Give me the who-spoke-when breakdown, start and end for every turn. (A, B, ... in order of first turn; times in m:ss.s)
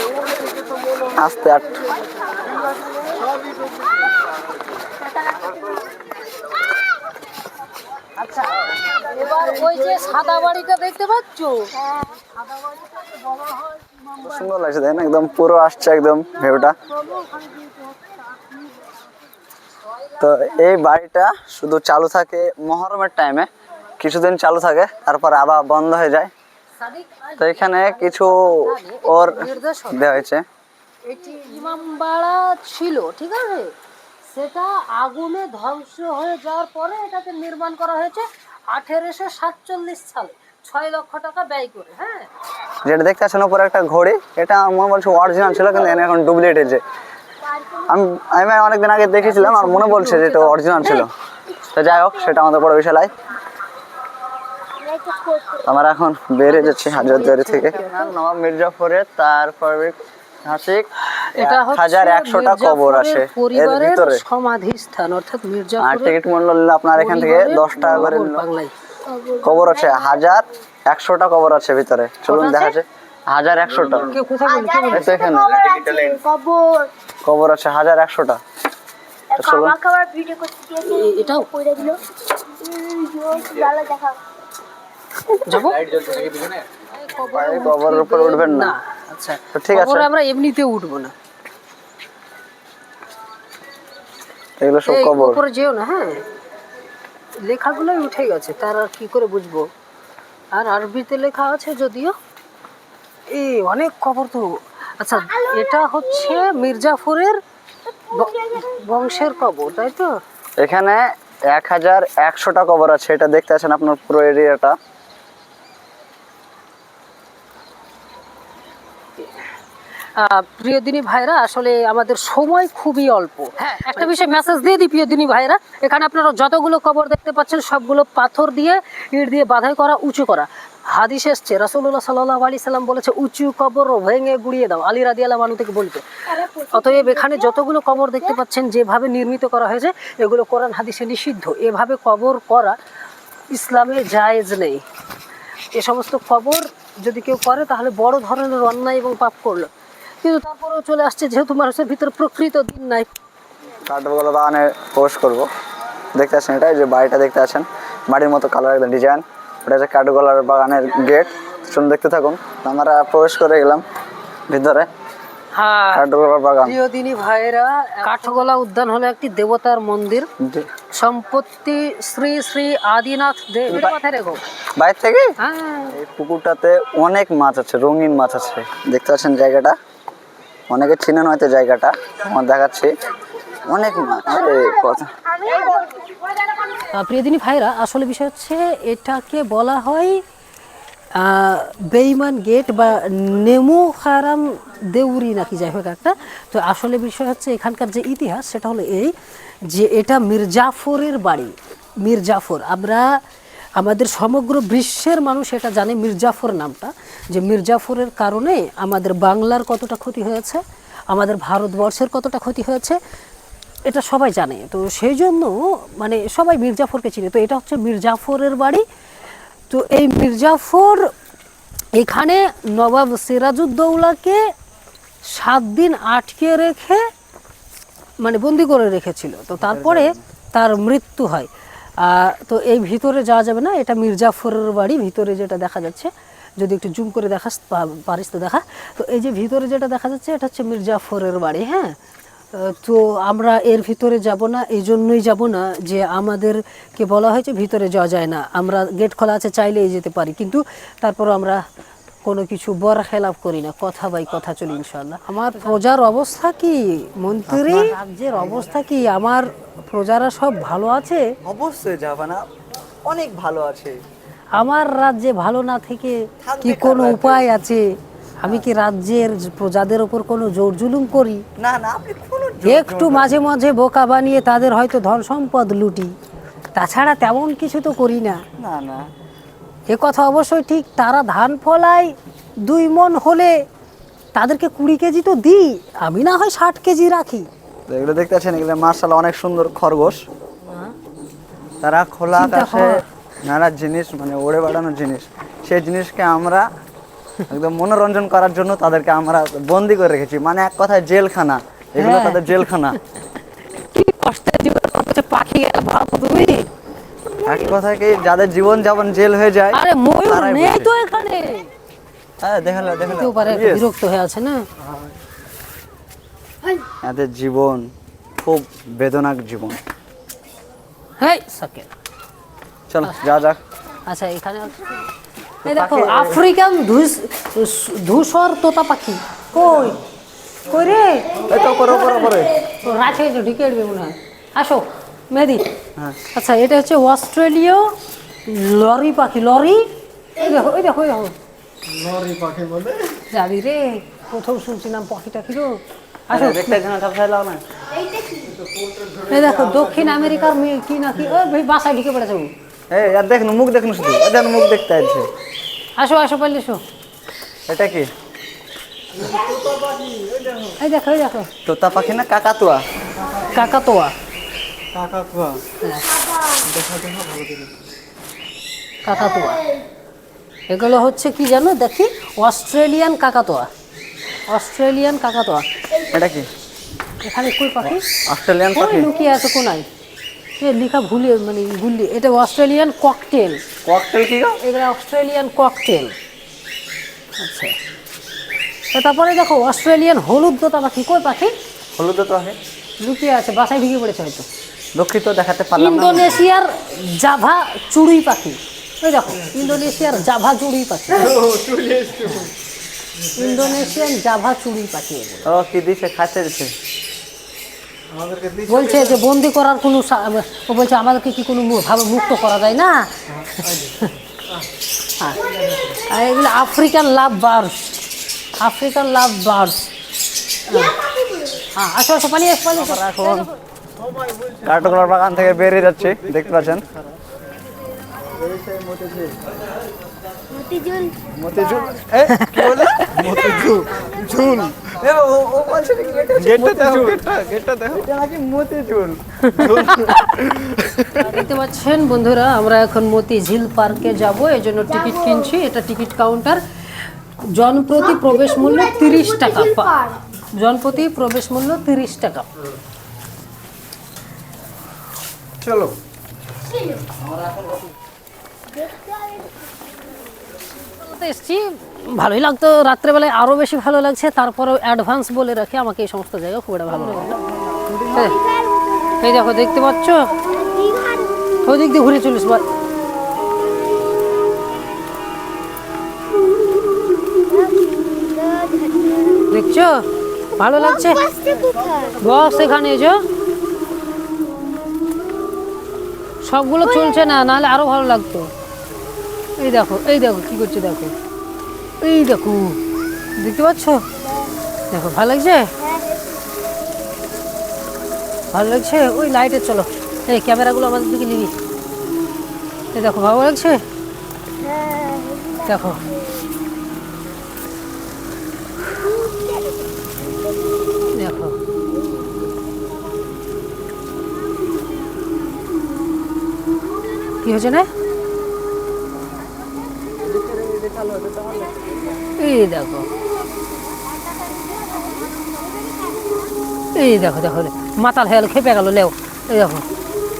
0:01.1-0:01.8 A
0:08.2-0:11.7 B
0:11.8-0:12.1 C
0:12.3-0:14.2 B
0:14.2-0:16.8 A
0:17.2-0:18.4 C
0:20.2-0:23.5 A
0:24.0-0:26.3 A
0:26.8-0:30.2 B
0:27.4-0:28.5 A
0:29.0-0:30.4 A
0:31.0-0:33.7 B
0:34.2-0:42.3 B
0:42.8-0:46.8 A
0:47.4-0:47.9 C
0:47.9-0:51.1 A
0:49.1-0:51.1 B
0:51.7-0:53.1 A
0:54.8-0:55.6 C
0:55.6-1:04.2 A
0:56.4-0:58.1 B
1:01.4-1:06.2 B
1:05.8-1:08.4 A
1:07.0-1:08.7 B
1:09.0-1:10.4 C
1:09.4-1:14.1 A
1:12.3-1:12.8 B
1:14.0-1:15.2 B
1:14.4-1:16.9 C
1:14.9-1:15.8 A
1:17.2-1:18.4 A
1:19.3-1:22.0 C
1:19.4-1:19.7 A
1:20.8-1:21.5 B
1:22.6-1:24.2 C
1:25.4-1:31.1 B
1:27.2-1:28.7 A
1:29.5-1:30.1 A
1:34.6-1:35.4 A
1:34.9-1:36.2 B
1:37.4-1:39.7 B
1:40.5-1:42.1 B
1:43.3-1:47.4 B
1:45.2-1:46.6 C
1:47.9-1:49.3 C
1:48.1-1:50.1 B
1:50.6-1:54.8 A
2:00.2-2:22.8 B
2:16.4-2:17.6 C
2:23.5-2:24.8 B
2:25.7-2:29.7 B
2:30.2-2:33.1 B
2:33.9-2:35.5 A
2:36.1-2:43.8 A
2:44.5-2:44.9 A
2:45.5-2:46.0 B
2:45.9-2:46.8 A
2:46.6-2:50.3 B
2:50.4-2:50.7 A
2:51.0-2:54.4 B
2:53.7-2:53.9 A
2:54.8-2:55.2 A
2:55.4-2:55.9 B
2:55.9-2:59.7 A
3:00.7-3:02.9 A
3:03.6-3:05.1 A
3:04.2-3:06.1 C
3:06.9-3:10.2 B
3:11.2-3:19.1 B
3:19.7-3:23.1 B
3:23.8-3:33.0 B
3:33.9-3:38.8 B
3:39.7-3:41.1 B
3:42.0-3:44.4 B
3:45.3-3:47.0 B
3:48.2-3:51.5 B
3:49.6-3:50.2 A
3:52.0-4:01.9 B
4:02.5-4:11.6 B
4:12.2-4:21.2 B
4:17.5-4:18.0 A
4:21.4-4:22.4 A
4:23.0-4:24.0 A
4:24.5-4:27.8 B
4:26.4-4:27.5 A
4:28.4-4:31.4 B
4:31.6-4:33.4 A
4:32.6-4:36.1 B
4:36.8-4:38.4 B
4:38.6-4:39.0 A
4:39.9-4:42.1 B
4:42.6-4:43.6 B
4:44.3-4:47.5 B
4:47.9-4:50.2 A
4:50.7-4:50.9 B
4:51.8-4:56.6 A
4:52.3-4:53.0 B
4:57.5-5:03.0 A
5:02.0-5:02.9 B
5:03.7-5:06.6 B
5:07.4-5:10.9 A
5:09.7-5:11.7 B
5:12.4-5:13.8 A
5:13.0-5:14.6 B
5:17.0-5:17.9 A
5:18.4-5:19.8 A
5:21.2-5:21.9 B
5:22.9-5:23.6 A
5:24.1-5:25.0 B
5:25.6-5:26.4 A
5:25.6-5:30.0 B
5:30.6-5:32.1 B
5:31.4-5:32.6 A
5:32.8-5:35.7 B
5:36.3-5:37.9 B
5:38.5-5:41.3 B
5:41.8-5:43.2 D
5:43.3-5:46.8 B
5:46.3-5:47.6 A
5:47.9-5:48.6 C
5:48.7-5:49.4 D
5:49.2-5:52.5 B
5:52.9-5:55.3 A
5:56.0-5:56.8 B
5:57.7-5:58.1 A
5:59.2-5:59.7 C
5:59.2-6:00.7 D
6:00.8-6:01.5 B
6:01.6-6:02.8 A
6:03.4-6:04.1 B
6:04.9-6:05.6 A
6:05.8-6:06.1 B
6:06.0-6:06.7 C
6:06.6-6:07.7 D
6:09.0-6:09.7 B
6:09.5-6:09.8 C
6:10.7-6:13.7 B
6:14.5-6:15.6 B
6:15.9-6:16.2 C
6:16.1-6:16.5 A
6:17.2-6:18.0 B
6:17.8-6:19.2 A
6:18.7-6:19.9 B
6:20.6-6:23.6 B
6:23.8-6:24.6 A
6:24.6-6:26.1 B
6:27.4-6:27.7 B
6:28.9-6:31.5 B
6:31.9-6:32.6 A
6:33.0-6:34.4 B
6:35.0-6:36.4 A
6:35.8-6:41.3 B
6:41.2-6:42.5 D
6:43.4-6:45.5 B
6:45.4-6:46.7 A
6:48.1-6:49.0 D
6:48.6-6:54.1 B
6:53.4-6:53.9 D
6:55.2-6:58.0 B
6:58.6-6:59.9 B
7:00.7-7:01.0 B
7:00.7-7:01.6 C
7:01.7-7:03.5 B
7:02.7-7:03.5 A
7:04.2-7:05.0 D
7:04.6-7:06.9 A
7:05.7-7:07.2 D
7:08.3-7:09.4 A
7:10.5-7:12.1 C
7:11.4-7:19.2 A
7:12.1-7:14.7 D
7:12.3-7:12.6 B
7:16.4-7:17.7 D
7:19.5-7:20.2 B
7:19.6-7:21.0 D
7:21.1-7:26.6 B
7:25.0-7:25.3 C
7:27.5-7:32.4 B
7:28.2-7:30.2 C
7:35.6-7:35.9 A
7:36.7-7:37.0 C
7:37.2-7:37.8 A
7:38.7-7:39.9 C
7:40.9-7:47.3 B
7:46.9-7:48.4 A
7:48.2-7:49.6 C
7:49.2-7:50.3 B
7:50.4-7:51.7 C
7:51.6-7:52.7 B
7:52.7-7:53.0 C
7:57.5-7:59.5 C
7:59.5-8:00.0 B
8:00.6-8:01.3 B
8:00.7-8:02.2 C
8:02.2-8:03.2 B
8:06.4-8:08.5 B
8:06.8-8:07.4 C
8:09.6-8:11.1 B
8:12.0-8:12.8 B
8:13.4-8:14.0 B
8:14.2-8:14.5 C
8:14.9-8:15.7 B
8:15.8-8:16.4 C
8:18.5-8:21.5 B
8:22.9-8:23.8 B
8:24.6-8:26.4 C
8:25.6-8:26.0 B
8:28.8-8:31.0 C
8:31.1-8:31.6 B
8:31.9-8:32.5 C
8:37.4-8:37.9 B
8:40.2-8:42.1 A
8:42.4-8:43.1 B
8:43.6-8:46.5 C
8:47.0-8:49.8 B